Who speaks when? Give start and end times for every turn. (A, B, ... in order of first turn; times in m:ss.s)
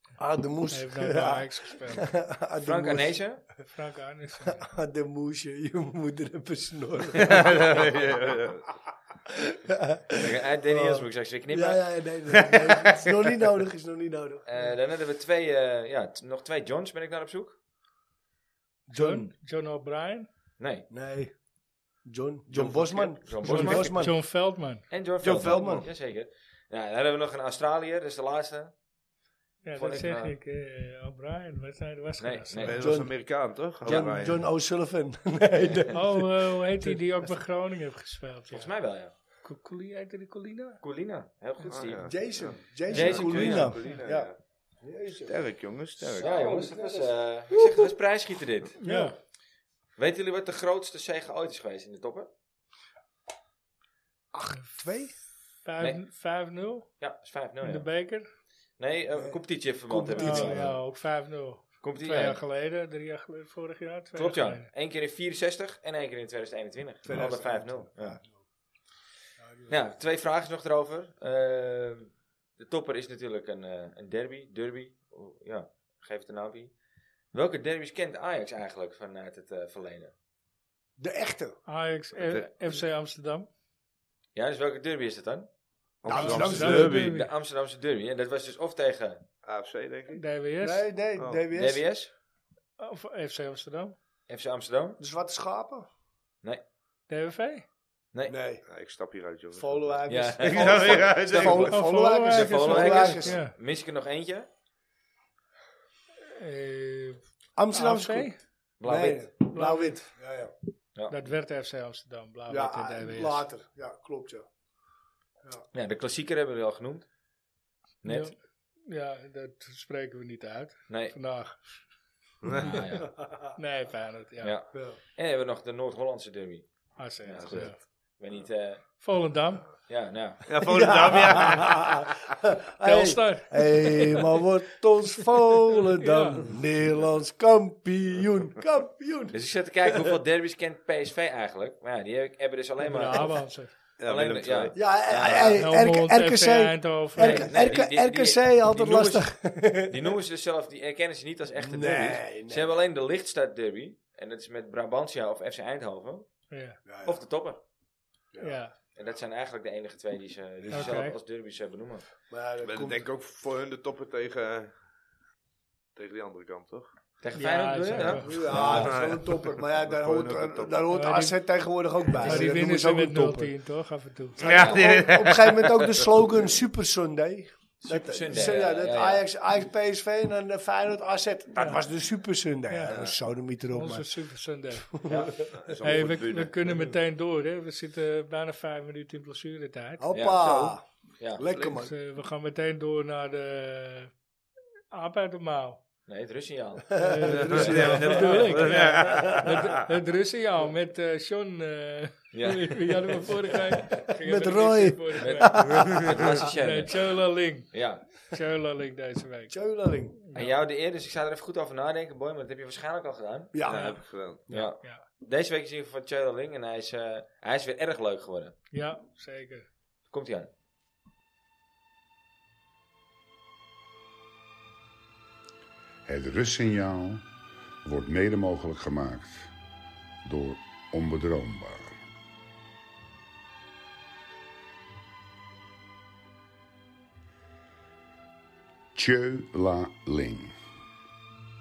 0:00.2-0:03.2 A
0:00.7-0:02.1 B
0:02.6-0:03.4 C
0:03.7-0:04.6 B
0:04.5-0:08.2 A
0:07.1-0:08.7 D
0:09.3-0:14.4 A
0:10.1-0:11.8 C
0:12.3-0:13.2 D
0:14.4-0:17.6 C
0:18.9-0:19.3 A
0:18.9-0:20.3 B
0:20.6-0:20.9 C
0:20.9-0:21.3 A
0:22.0-0:24.1 A
0:22.5-0:23.1 D
0:22.9-0:24.1 C
0:23.4-0:24.8 B
0:24.9-0:28.7 C
0:25.2-0:25.8 D
0:25.3-0:25.8 A
0:29.6-0:32.8 B
0:29.8-0:30.3 C
0:32.2-0:32.8 C
0:32.6-0:34.4 D
0:32.8-0:33.2 A
0:33.8-0:37.0 A
0:35.9-0:38.7 B
0:38.5-0:39.1 C
0:39.4-0:40.8 B
0:40.8-0:42.1 C
0:41.7-0:44.4 D
0:42.0-0:45.4 A
0:42.9-0:43.8 C
0:45.2-0:46.4 D
0:46.0-0:47.9 A
0:46.2-0:48.8 C
0:48.8-0:49.1 B
0:48.8-0:49.1 A
0:50.0-0:52.3 C
0:54.3-0:55.2 A
0:55.6-0:56.9 B
0:57.0-0:57.9 C
0:57.6-0:58.2 B
0:58.8-1:00.6 C
0:59.1-1:00.8 A
1:00.1-1:04.7 B
1:01.8-1:02.4 C
1:04.2-1:08.2 C
1:07.0-1:08.4 A
1:09.4-1:09.8 A
1:09.7-1:16.7 C
1:17.3-1:20.1 C
1:21.0-1:21.6 A
1:21.7-1:23.5 B
1:22.2-1:22.5 D
1:24.3-1:25.5 C
1:26.0-1:27.2 D
1:26.1-1:26.9 A
1:26.1-1:27.3 B
1:26.3-1:29.2 C
1:29.4-1:30.2 D
1:30.1-1:30.9 B
1:30.6-1:31.8 A
1:31.2-1:31.4 D
1:31.5-1:32.1 C
1:32.8-1:34.0 B
1:34.3-1:35.0 C
1:35.0-1:35.9 A
1:37.1-1:37.6 B
1:38.3-1:38.6 A
1:38.7-1:41.8 D
1:39.5-1:43.4 A
1:40.1-1:41.7 C
1:41.7-1:43.5 B
1:42.3-1:44.5 C
1:42.7-1:43.3 D
1:46.3-1:47.2 B
1:47.6-1:48.3 A
1:47.7-1:48.4 B
1:48.8-1:49.3 C
1:48.8-1:50.5 A
1:49.5-1:50.0 B
1:51.1-1:53.4 B
1:52.5-1:54.4 A
1:55.7-1:57.0 C
1:58.0-1:58.3 C
1:58.0-2:01.6 B
2:00.9-2:01.2 C
2:02.4-2:02.8 D
2:02.6-2:03.1 C
2:03.0-2:03.5 A
2:03.6-2:04.5 B
2:04.4-2:06.7 C
2:07.0-2:07.8 B
2:07.2-2:08.8 C
2:09.0-2:09.7 B
2:09.9-2:10.5 C
2:10.5-2:12.1 D
2:10.6-2:20.2 A
2:12.8-2:14.3 B
2:15.7-2:16.4 B
2:19.3-2:23.4 C
2:22.8-2:23.7 B
2:24.0-2:25.5 D
2:24.0-2:25.6 C
2:24.7-2:30.2 A
2:25.6-2:27.6 B
2:27.2-2:29.2 C
2:29.8-2:36.3 C
2:31.6-2:32.7 A
2:36.5-2:36.8 B
2:36.8-2:37.2 A
2:37.0-2:37.6 C
2:38.4-2:38.7 B
2:38.9-2:42.0 C
2:40.7-2:41.2 B
2:42.3-2:43.0 A
2:42.6-2:44.7 D
2:45.9-2:46.9 D
2:47.2-2:49.0 C
2:47.3-2:48.5 B
2:48.0-2:53.5 A
2:48.5-2:50.8 D
2:50.9-2:51.4 B
2:52.2-2:54.4 B
2:54.4-2:56.1 D
2:54.4-3:04.1 A
2:54.5-2:54.8 C
2:57.8-2:59.2 C
3:02.7-3:02.9 B
3:03.7-3:04.9 B
3:04.8-3:05.5 A
3:05.1-3:05.4 C
3:05.5-3:06.7 D
3:05.8-3:10.1 B
3:10.0-3:10.8 A
3:10.1-3:11.4 C
3:11.3-3:11.9 A
3:11.8-3:14.1 B
3:14.9-3:15.8 B
3:16.1-3:17.8 C
3:16.9-3:19.5 A
3:17.0-3:29.6 B
3:17.3-3:19.9 D
3:22.3-3:23.3 C
3:24.1-3:26.4 A
3:25.2-3:26.9 C
3:27.7-3:28.2 C
3:29.5-3:30.2 A
3:30.2-3:30.5 B
3:30.3-3:38.6 C
3:33.5-3:34.7 A
3:33.7-3:34.4 D
3:38.7-3:39.7 B
3:40.1-3:40.5 C
3:46.0-3:47.3 E
3:47.8-3:49.5 E
3:50.2-3:52.0 E
3:58.9-4:00.6 E